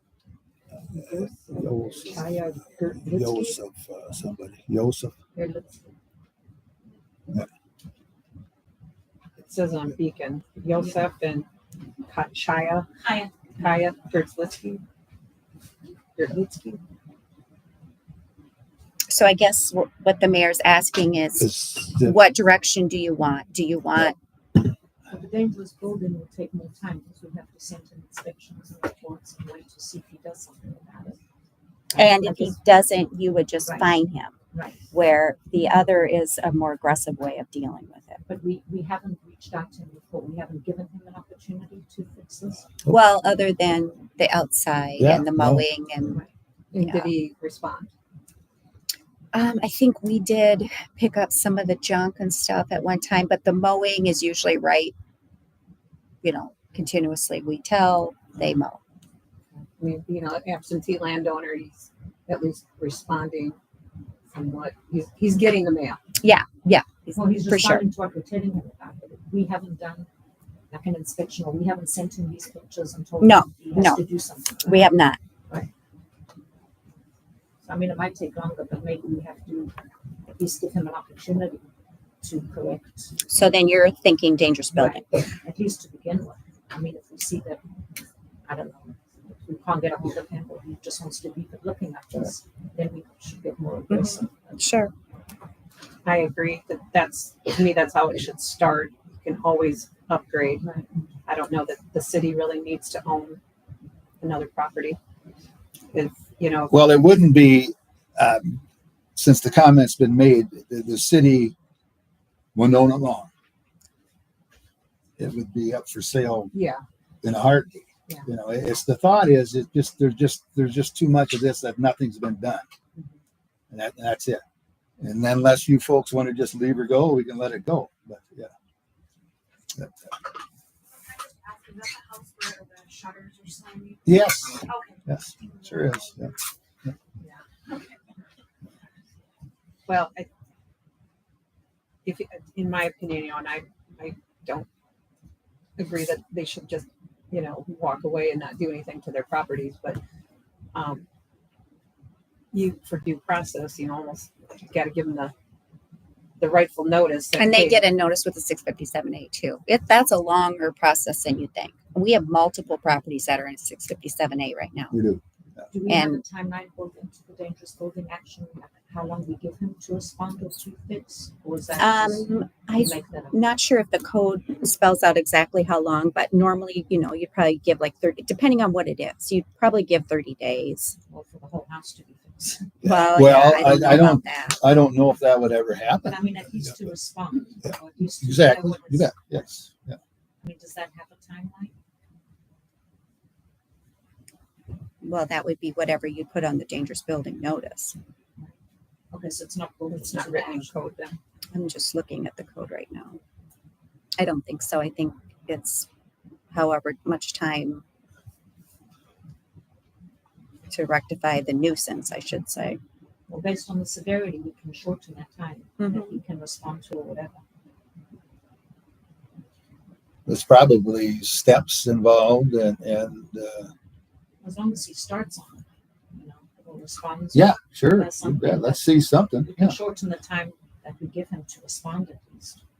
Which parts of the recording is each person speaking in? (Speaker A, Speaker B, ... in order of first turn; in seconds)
Speaker A: 0.9-3.6, 9.4-11.5, 12.1-12.9, 13.6-14.8, 16.1-16.8, 46.7-47.9, 59.8-63.5, 64.3-66.0, 96.0-100.6, 101.3-103.4, 104.2-105.0, 105.9-107.0, 116.5-116.8, 139.9-140.3, 142.0-144.7, 145.8-150.0, 150.7-151.0, 152.5-155.3, 156.4-157.8, 199.9-201.2
Speaker B: 1.0-2.1, 5.3-5.9, 13.0-13.3, 25.1-31.2, 31.9-32.6, 33.6-33.9, 34.5-34.8, 38.2-42.6, 67.2-70.1, 70.7-74.9, 77.6-79.7, 80.3-81.7, 82.2-83.1, 84.7-87.6, 88.5-94.6, 100.6-100.9, 165.7-173.4, 181.1-182.7, 186.0-189.4, 190.4-191.7, 199.1-200.7, 213.3-217.4, 224.4-232.6
Speaker C: 1.5-2.2, 3.0-5.1, 21.4-22.1, 45.0-45.6, 106.7-108.6, 109.2-111.5, 112.5-113.3, 115.2-116.5, 117.2-122.6, 123.7-124.4, 125.0-128.5, 129.7-130.1, 134.1-136.9, 164.9-165.2, 182.8-186.2, 188.2-190.0, 220.3-223.7, 227.3-229.7
Speaker D: 19.1-24.1, 31.9-34.3, 34.9-38.2, 42.9-46.2, 46.8-47.1, 49.3-54.9, 56.2-58.8, 66.2-67.8, 73.2-74.0, 74.6-75.2, 83.2-85.2, 93.9-94.9, 157.4-165.0, 165.8-166.2, 171.8-180.9, 182.8-184.6, 195.0-197.9, 201.5-203.2, 204.2-205.9, 206.5-207.8, 210.7-212.8, 215.8-216.1
Speaker E: 131.1-134.0, 135.4-136.1